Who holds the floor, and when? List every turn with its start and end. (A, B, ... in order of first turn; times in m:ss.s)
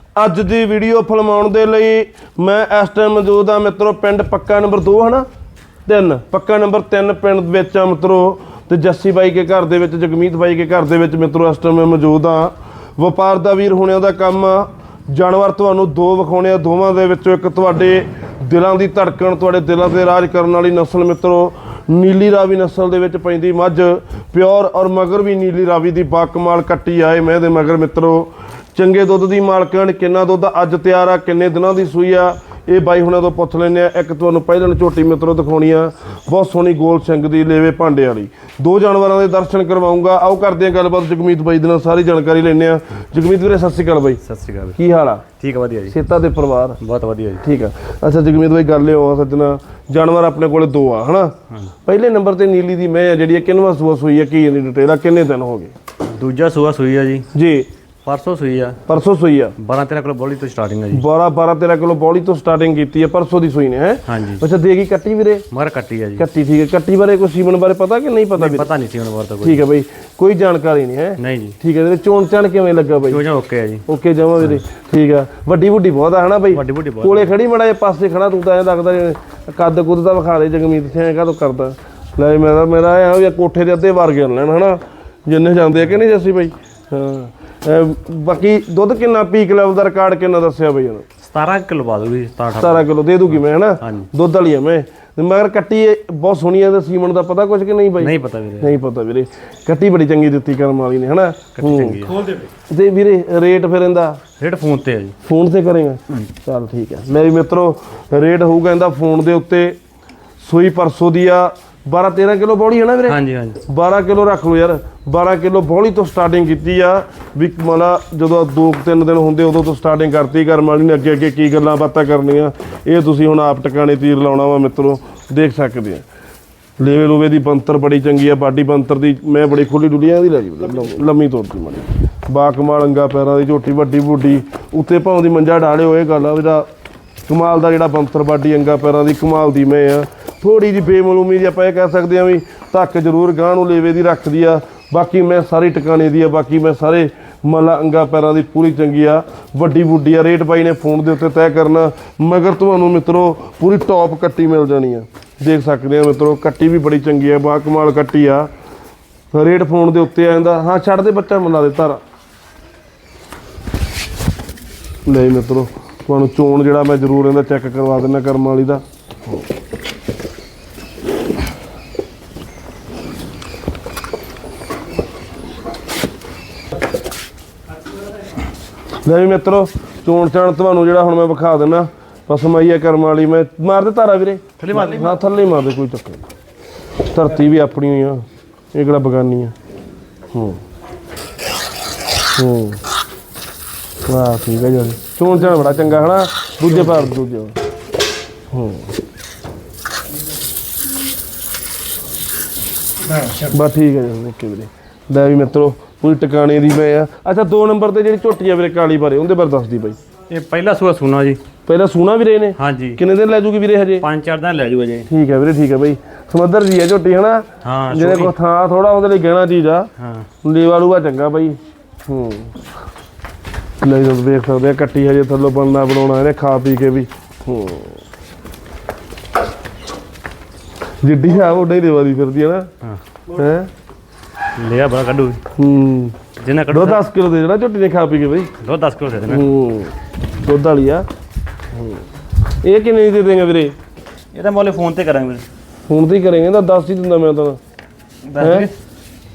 0:00.2-0:05.3 A
0:05.9-0:44.2 A
0:44.2-0:44.8 B
0:44.8-0:45.3 A
0:45.4-0:46.0 B
0:45.9-0:46.8 A
0:46.8-0:47.5 B
0:47.4-0:55.7 A
0:56.1-0:57.3 B
0:57.3-0:57.7 A
0:58.0-0:58.8 B
0:58.9-0:59.6 A
0:59.6-1:01.0 B
1:00.9-1:05.5 A
1:04.1-1:04.4 B
1:05.5-1:06.2 B
1:06.2-1:08.7 A
1:08.4-1:09.6 B
1:09.4-1:13.2 A
1:11.2-1:11.6 B
1:13.0-1:13.8 B
1:13.9-1:31.1 A
1:16.5-1:17.3 B
1:31.2-1:34.1 B
1:32.6-1:42.1 A
1:38.0-1:38.8 B
1:41.6-1:42.4 B
1:42.7-1:44.2 A
1:44.4-1:45.2 B
1:45.2-1:49.8 A
1:50.4-2:06.0 A
1:53.1-1:53.6 B
2:06.8-2:16.7 A
2:17.3-2:38.5 A
2:39.3-2:42.0 A
2:45.1-2:49.4 A
2:59.0-3:06.2 A
3:04.6-3:05.2 B
3:07.1-3:09.5 A
3:10.3-3:10.6 A
3:12.4-3:12.8 A
3:14.1-3:17.6 A
3:18.5-3:18.9 A
3:23.4-3:30.0 A
3:30.3-3:31.4 B
3:31.7-3:34.0 A
3:32.6-3:33.0 B
3:34.0-3:35.1 B
3:35.1-3:39.9 A
3:37.6-3:38.3 B
3:40.0-3:40.3 B
3:40.4-3:42.6 A
3:43.8-3:48.0 A
3:51.0-3:52.7 A
3:53.3-3:53.7 A
3:54.6-3:55.4 B
3:55.6-3:56.2 A
3:56.4-3:57.0 B
3:56.7-3:58.5 A
3:58.6-3:59.5 B
3:59.3-4:01.1 A
4:01.8-4:02.0 A
4:02.6-4:03.8 A
4:04.3-4:05.4 B
4:05.9-4:07.6 A
4:08.3-4:08.7 B
4:08.4-4:08.7 A